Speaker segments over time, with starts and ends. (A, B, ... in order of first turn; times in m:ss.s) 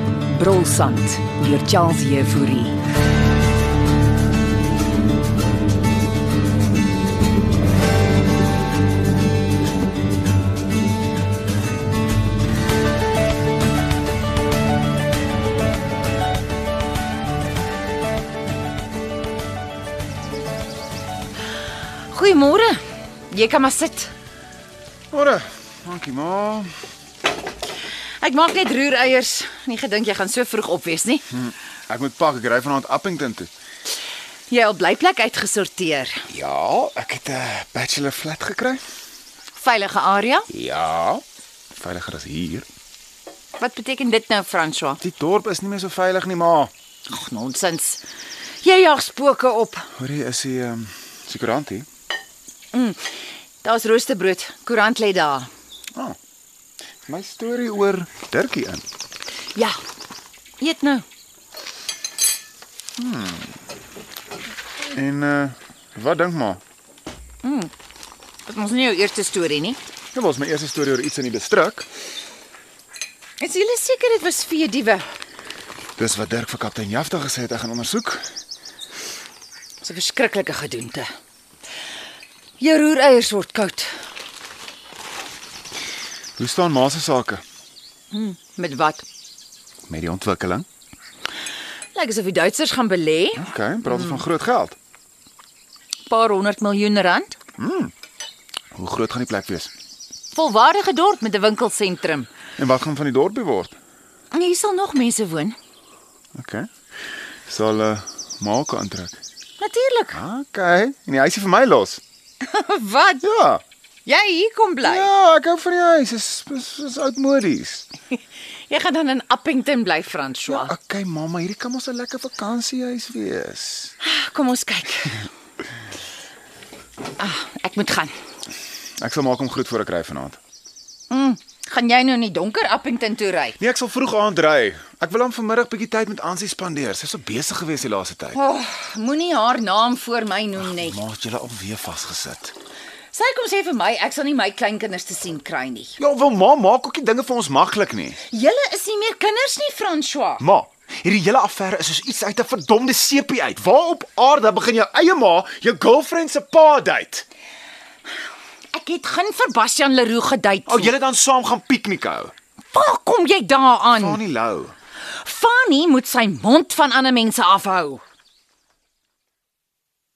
0:00.3-0:02.8 A
0:22.1-0:24.1 B
0:25.1-0:26.7 C
0:28.2-0:31.2 B
0:31.3-0:33.5 C
0:34.5-0:36.2 B
0:36.3-0:38.8 C
0:39.6-0:40.5 B
0:40.5-0:42.6 C
0:43.6-0:45.0 B
0:45.0-0:46.7 C
0:47.1-0:48.0 B
0:48.6-0:49.9 B
0:50.0-0:51.8 C
0:52.7-0:55.5 B
0:57.1-0:58.8 C
1:00.6-1:01.0 B
1:03.0-1:03.6 C
1:04.9-1:06.6 C
1:07.4-1:07.7 B
1:08.5-1:09.8 B
1:10.1-1:11.9 C
1:13.4-1:15.0 B
1:16.0-1:18.2 C
1:19.8-1:21.1 B
1:22.6-1:23.9 B
1:26.4-1:27.4 C
1:28.1-1:29.0 B
1:29.9-1:30.6 C
1:31.9-1:34.2 B
1:33.4-1:34.8 C
1:36.1-1:37.3 B
1:37.6-1:37.9 C
1:38.7-1:39.7 C
1:40.3-1:42.3 B
1:42.6-1:43.8 C
1:44.3-1:45.6 B
1:46.3-1:46.7 C
1:47.5-1:49.2 C
1:49.6-1:50.2 B
1:50.1-1:52.0 C
1:52.4-1:53.2 B
1:53.2-1:53.6 C
1:54.0-1:55.1 B
1:54.8-1:57.9 C
1:58.7-2:00.7 B
2:00.5-2:03.9 C
2:04.0-2:05.2 B
2:07.2-2:08.1 B
2:09.0-2:10.4 C
2:11.1-2:13.6 B
2:13.6-2:18.4 C
2:18.3-2:21.0 B
2:20.6-2:22.5 C
2:23.1-2:26.0 B
2:26.0-2:28.2 C
2:28.3-2:30.4 B
2:30.4-2:37.2 C
2:38.7-2:40.9 B
2:40.6-2:42.3 C
2:42.7-2:44.2 B
2:43.9-2:44.7 C
2:45.2-2:48.0 B